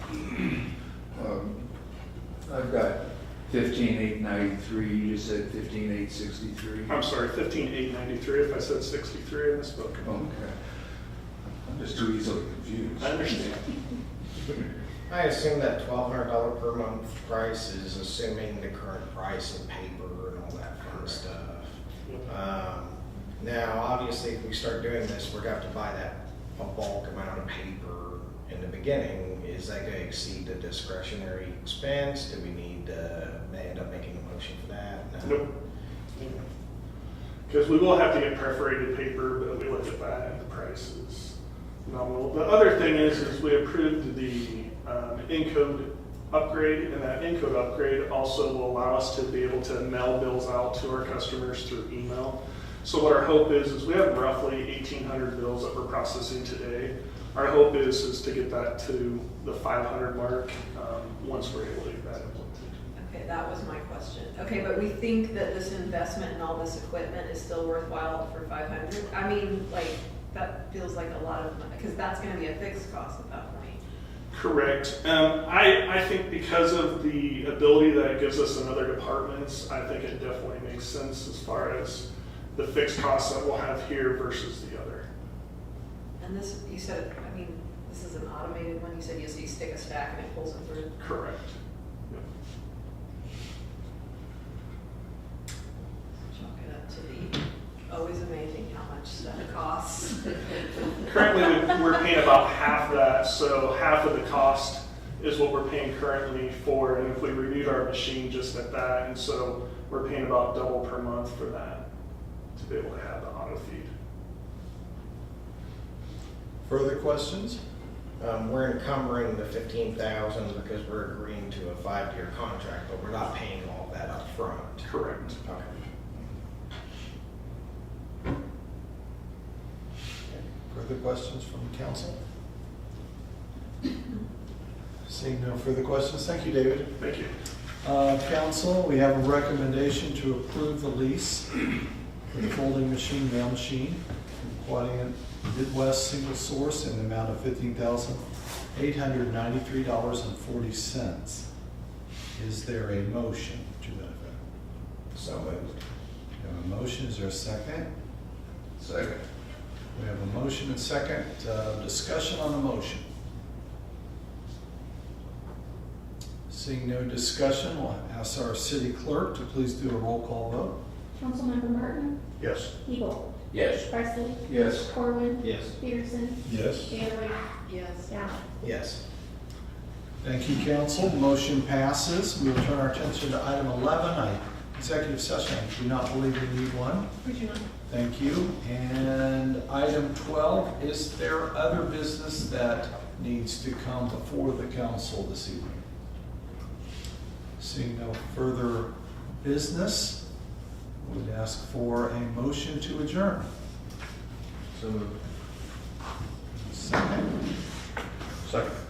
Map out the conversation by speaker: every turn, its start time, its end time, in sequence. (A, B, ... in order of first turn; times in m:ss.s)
0:01.2-0:01.6 A
0:02.5-0:06.9 A
0:06.9-0:10.0 B
0:10.0-0:10.5 A
0:11.7-0:13.2 A
0:13.0-0:13.7 B
0:15.1-0:35.4 C
0:35.2-0:35.6 B
0:36.2-0:36.4 B
0:37.5-1:02.9 B
1:03.0-1:13.8 D
1:14.3-1:25.1 B
1:26.2-1:31.0 D
1:31.0-1:31.6 B
1:36.3-1:40.4 D
1:41.0-1:51.8 B
1:52.6-1:53.9 B
1:56.6-1:57.6 E
1:58.2-2:04.9 C
2:04.8-2:05.4 B
2:05.4-2:05.7 C
2:10.3-2:12.2 E
2:15.1-2:17.0 E
2:17.0-2:17.3 B
2:17.8-2:21.6 E
2:22.3-2:31.5 E
2:32.4-2:34.4 E
2:35.2-2:35.8 C
2:36.4-2:37.9 E
2:38.8-2:39.2 A
2:40.0-2:43.0 E
2:46.5-2:50.8 E
2:51.2-2:52.2 F
2:52.4-2:52.7 B
2:52.8-2:53.2 F
2:53.5-2:53.9 A
2:53.8-2:54.4 F
2:54.4-2:55.7 A
2:54.9-2:57.4 F
2:55.4-2:55.7 C
2:56.4-2:57.0 E
2:57.7-2:58.1 D
2:58.1-2:58.4 F
2:58.6-2:59.0 C
3:00.2-3:07.1 E
3:07.2-3:07.6 D
3:07.9-3:15.8 E
3:17.6-3:20.2 E
3:21.0-3:23.5 E
3:26.5-3:27.3 E